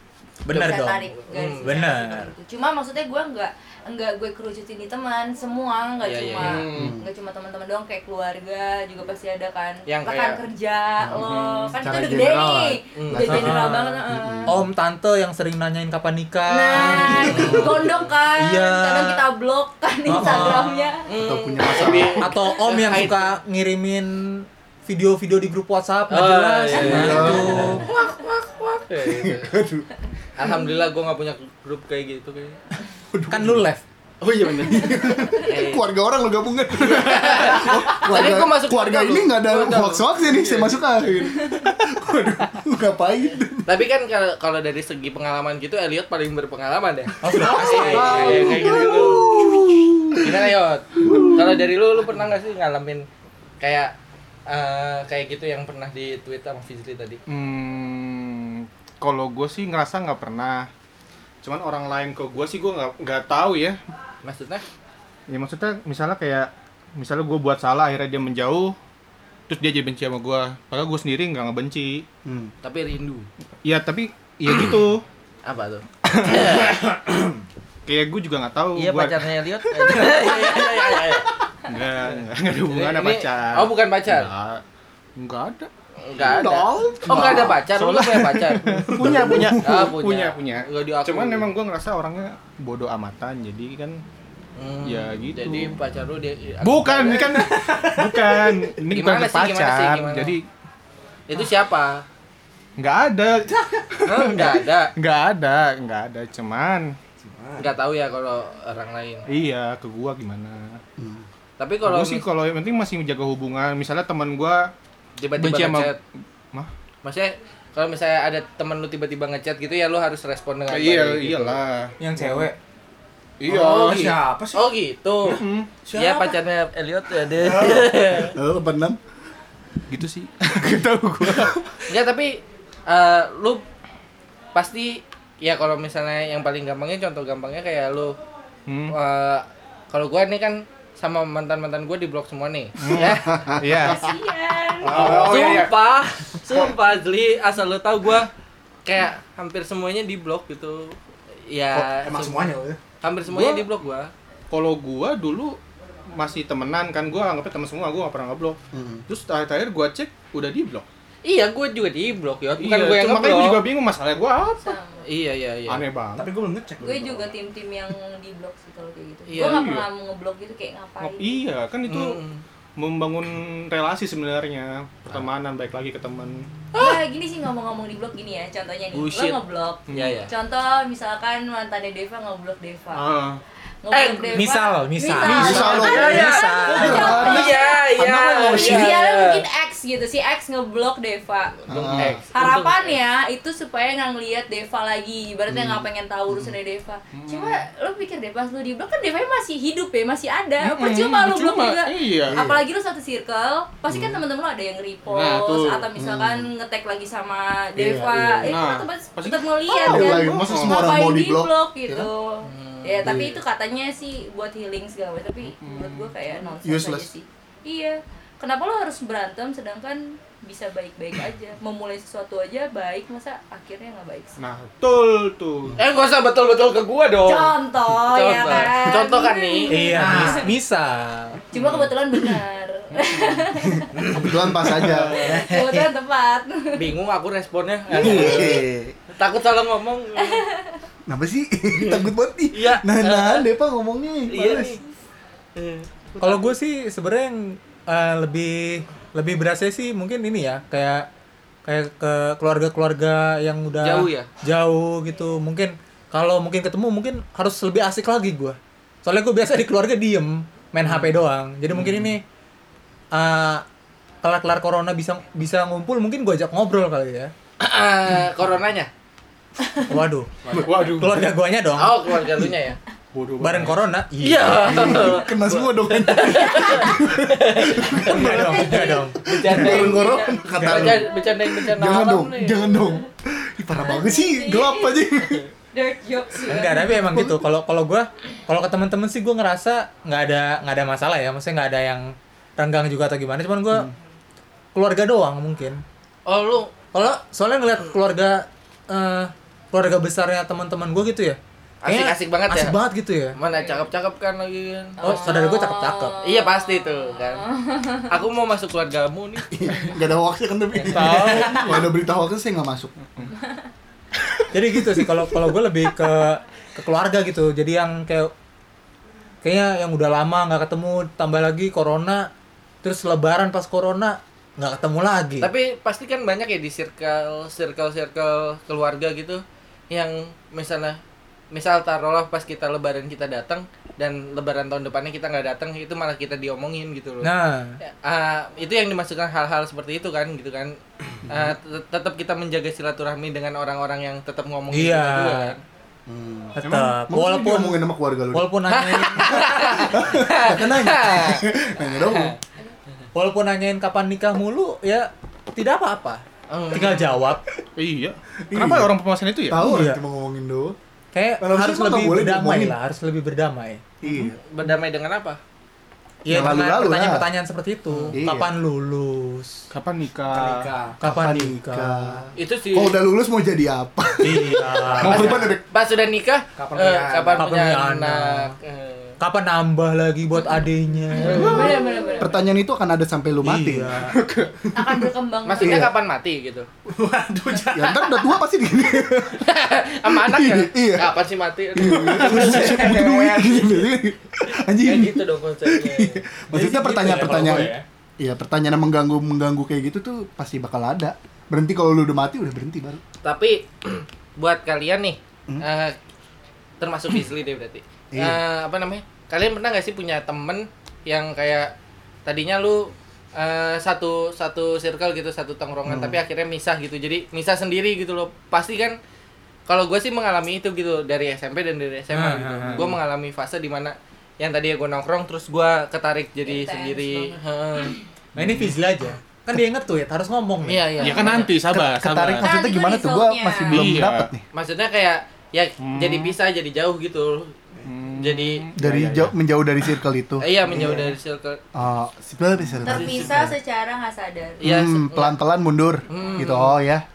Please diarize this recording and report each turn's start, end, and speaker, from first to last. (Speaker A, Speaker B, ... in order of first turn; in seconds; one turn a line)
Speaker A: 0.5-1.1
Speaker B: 0.5-14.6
Speaker C: 1.3-1.8
Speaker A: 1.6-2.3
Speaker C: 6.0-6.7
Speaker D: 6.4-7.0
Speaker E: 6.7-7.1
Speaker C: 9.9-10.4
Speaker E: 11.0-14.6
Speaker D: 11.1-11.8
Speaker C: 12.9-13.3
Speaker A: 13.2-17.8
Speaker B: 16.5-21.1
Speaker E: 16.7-17.9
Speaker C: 16.9-18.1
Speaker A: 18.4-19.2
Speaker A: 20.1-20.9
Speaker E: 20.1-20.5
Speaker C: 21.1-23.2
Speaker E: 21.1-22.3
Speaker B: 21.6-22.0
Speaker A: 22.2-27.8
Speaker C: 26.1-29.5
Speaker E: 26.7-27.9
Speaker E: 29.0-29.9
Speaker C: 30.4-32.6
Speaker E: 33.1-33.7
Speaker A: 33.3-33.8
Speaker E: 34.2-43.7
Speaker C: 35.4-35.8
Speaker C: 36.8-40.1
Speaker C: 43.6-49.4
Speaker A: 47.2-48.6
Speaker E: 47.4-50.3
Speaker C: 50.1-53.1
Speaker E: 51.0-51.5
Speaker C: 53.6-53.9
Speaker C: 54.5-57.2
Speaker D: 57.3-60.7
Speaker D: 61.4-63.8
Speaker C: 64.2-64.6
Speaker D: 65.3-68.7
Speaker D: 69.5-72.0
Speaker E: 72.2-72.5
Speaker C: 72.6-73.3
Speaker D: 73.6-75.0
Speaker C: 75.4-76.8
Speaker D: 76.2-76.8
Speaker D: 77.8-80.4
Speaker C: 78.7-81.3
Speaker D: 81.7-84.6
Speaker C: 82.6-84.3
Speaker D: 85.2-85.7
Speaker C: 86.0-91.5
Speaker F: 86.3-87.4
Speaker E: 86.7-87.6
Speaker D: 87.1-94.0
Speaker E: 88.9-89.8
Speaker C: 94.5-97.5
Speaker D: 94.8-95.8
Speaker D: 96.6-100.5
Speaker F: 97.5-98.4
Speaker C: 98.9-100.4
Speaker C: 101.3-102.0
Speaker D: 102.8-107.0
Speaker C: 104.0-104.9
Speaker C: 107.6-109.2
Speaker D: 109.3-110.8
Speaker E: 111.0-111.2
Speaker C: 111.6-112.2
Speaker D: 111.8-114.7
Speaker C: 115.2-116.0
Speaker D: 115.4-116.0
Speaker C: 117.0-121.6
Speaker D: 120.7-122.5
Speaker A: 122.0-122.5
Speaker D: 123.4-124.2
Speaker F: 123.5-124.6
Speaker C: 123.5-125.4
Speaker D: 125.2-125.7
Speaker F: 125.8-126.4
Speaker C: 125.9-128.4
Speaker E: 128.2-129.0
Speaker D: 129.9-131.5
Speaker C: 131.9-133.6
Speaker C: 134.5-138.2
Speaker D: 138.7-138.9
Speaker C: 138.9-143.6
Speaker D: 142.8-144.1
Speaker E: 143.3-143.8
Speaker B: 143.7-145.0
Speaker D: 144.8-145.7
Speaker F: 144.9-145.7
Speaker C: 144.9-148.3
Speaker C: 148.8-151.0
Speaker C: 151.5-154.1
Speaker F: 151.8-152.8
Speaker D: 153.3-153.6
Speaker D: 154.5-155.6
Speaker D: 156.1-160.8
Speaker E: 158.7-159.0
Speaker C: 161.2-163.6
Speaker D: 162.6-164.7
Speaker B: 164.6-165.1
Speaker C: 165.0-165.8
Speaker D: 165.7-166.3
Speaker F: 166.2-167.3
Speaker B: 166.8-171.4
Speaker C: 169.3-169.7
Speaker D: 169.3-169.8
Speaker D: 171.0-172.2
Speaker C: 171.8-172.4
Speaker D: 172.8-176.5
Speaker C: 176.7-177.0
Speaker B: 176.7-183.1
Speaker C: 178.9-180.3
Speaker D: 179.9-180.3
Speaker D: 182.9-183.4
Speaker B: 183.8-187.9
Speaker C: 183.9-184.4
Speaker A: 184.3-187.3
Speaker E: 185.2-189.0
Speaker C: 185.3-189.4
Speaker B: 188.4-191.6
Speaker E: 191.7-192.1
Speaker C: 191.7-193.0
Speaker D: 191.7-192.1
Speaker B: 192.3-224.4
Speaker E: 195.5-196.6
Speaker D: 197.1-197.6
Speaker D: 200.6-202.6
Speaker E: 202.3-202.6
Speaker E: 203.9-204.2
Speaker D: 205.1-205.9
Speaker E: 205.9-206.5
Speaker E: 207.7-208.6
Speaker D: 208.4-210.9
Speaker E: 209.7-212.1
Speaker C: 212.4-213.3
Speaker E: 213.0-213.4
Speaker D: 215.6-216.1
Speaker E: 216.6-217.1
Speaker D: 224.4-225.8
Speaker C: 225.8-230.3
Speaker B: 227.2-230.5
Speaker A: 229.7-231.4
Speaker F: 229.9-230.5
Speaker B: 231.5-234.1
Speaker E: 233.7-235.2
Speaker C: 233.9-235.9
Speaker D: 234.8-235.4
Speaker B: 235.1-236.9
Speaker C: 236.7-240.4
Speaker E: 237.9-238.9
Speaker E: 241.1-244.8
Speaker C: 241.7-243.5
Speaker C: 244.3-244.8
Speaker C: 245.6-246.5
Speaker A: 246.2-251.1
Speaker A: 251.6-262.2
Speaker C: 253.8-254.3
Speaker D: 261.8-262.0
Speaker A: 263.1-263.6
Speaker A: 264.2-267.3
Speaker C: 267.6-268.9
Speaker A: 269.8-272.1
Speaker C: 270.5-270.7
Speaker D: 270.5-271.2
Speaker C: 271.7-272.8
Speaker D: 273.1-273.9
Speaker A: 273.4-274.9
Speaker C: 274.2-282.4
Speaker E: 274.6-285.4
Speaker B: 274.8-275.1
Speaker B: 276.6-276.9
Speaker A: 278.0-279.2
Speaker B: 278.2-280.4
Speaker A: 280.5-281.0
Speaker B: 282.1-283.0
Speaker B: 283.8-285.1
Speaker B: 285.7-287.1
Speaker A: 286.5-293.9
Speaker E: 286.9-287.5
Speaker A: 294.7-295.8
Speaker C: 296.3-297.1
Speaker A: 296.9-303.4
Speaker C: 301.8-302.8
Speaker C: 303.4-305.3
Speaker B: 303.5-303.8
Speaker B: 305.0-308.2
Speaker A: 305.0-306.2
Speaker C: 306.2-307.4
Speaker C: 308.1-309.5
Speaker E: 309.5-312.9
Speaker D: 310.9-311.9
Speaker A: 311.0-311.8
Speaker A: 314.5-318.3
Speaker A: 319.4-322.3
Speaker A: 322.8-325.5
Speaker C: 325.4-331.0
Speaker C: 331.5-340.8
Speaker A: 337.2-337.8
Speaker E: 341.2-341.5
Speaker C: 341.3-345.6
Speaker A: 344.7-345.6
Speaker E: 346.1-348.5
Speaker A: 346.6-349.7
Speaker D: 346.6-346.9
Speaker C: 348.7-352.4
Speaker E: 349.5-352.3
Speaker A: 353.1-357.4
Speaker C: 356.5-357.1
Speaker D: 357.8-359.6
Speaker E: 358.5-358.9
Speaker E: 359.5-360.8
Speaker A: 359.6-360.0
Speaker A: 361.1-363.9
Speaker E: 361.4-362.7
Speaker E: 364.0-364.4
Speaker C: 364.4-365.4
Speaker A: 366.2-369.6
Speaker E: 366.3-367.2
Speaker C: 367.9-368.1
Speaker E: 368.1-368.5
Speaker D: 369.7-370.7
Speaker F: 370.3-370.7
Speaker E: 370.9-375.6
Speaker A: 371.0-372.2
Speaker C: 372.4-373.0
Speaker A: 374.2-375.4
Speaker D: 375.0-375.5
Speaker C: 375.1-379.2
Speaker D: 376.6-377.4
Speaker A: 377.3-378.5
Speaker A: 379.2-381.7
Speaker B: 381.1-382.4
Speaker C: 381.2-381.6
Speaker E: 381.3-384.0
Speaker A: 383.4-384.1
Speaker D: 384.1-384.7
Speaker B: 384.7-385.9
Speaker E: 384.8-385.0
Speaker C: 385.4-386.7
Speaker E: 385.6-385.9
Speaker F: 386.9-388.3
Speaker E: 387.5-389.4
Speaker C: 389.4-393.9
Speaker E: 390.1-391.1
Speaker E: 391.7-403.0
Speaker D: 391.9-392.8
Speaker C: 394.5-396.2
Speaker A: 396.5-397.8
Speaker C: 403.2-406.0
Speaker C: 406.8-411.7
Speaker E: 408.1-408.4
Speaker C: 412.2-419.0
Speaker E: 415.9-416.2
Speaker C: 419.7-428.0
Speaker A: 422.1-422.9
Speaker B: 426.4-428.0
Speaker A: 428.4-431.1
Speaker C: 430.6-431.5
Speaker B: 431.0-431.2
Speaker D: 431.0-432.5
Speaker E: 431.7-434.4
Speaker B: 432.3-433.9
Speaker D: 433.7-434.3
Speaker C: 434.5-437.5
Speaker D: 435.8-436.3
Speaker D: 437.8-439.4
Speaker C: 438.2-438.6
Speaker E: 438.8-441.1
Speaker C: 440.4-441.6
Speaker D: 440.7-441.0
Speaker E: 441.7-443.5
Speaker B: 442.8-444.8
Speaker C: 443.2-443.4
Speaker C: 444.6-445.4
Speaker E: 444.6-447.0
Speaker C: 446.1-446.8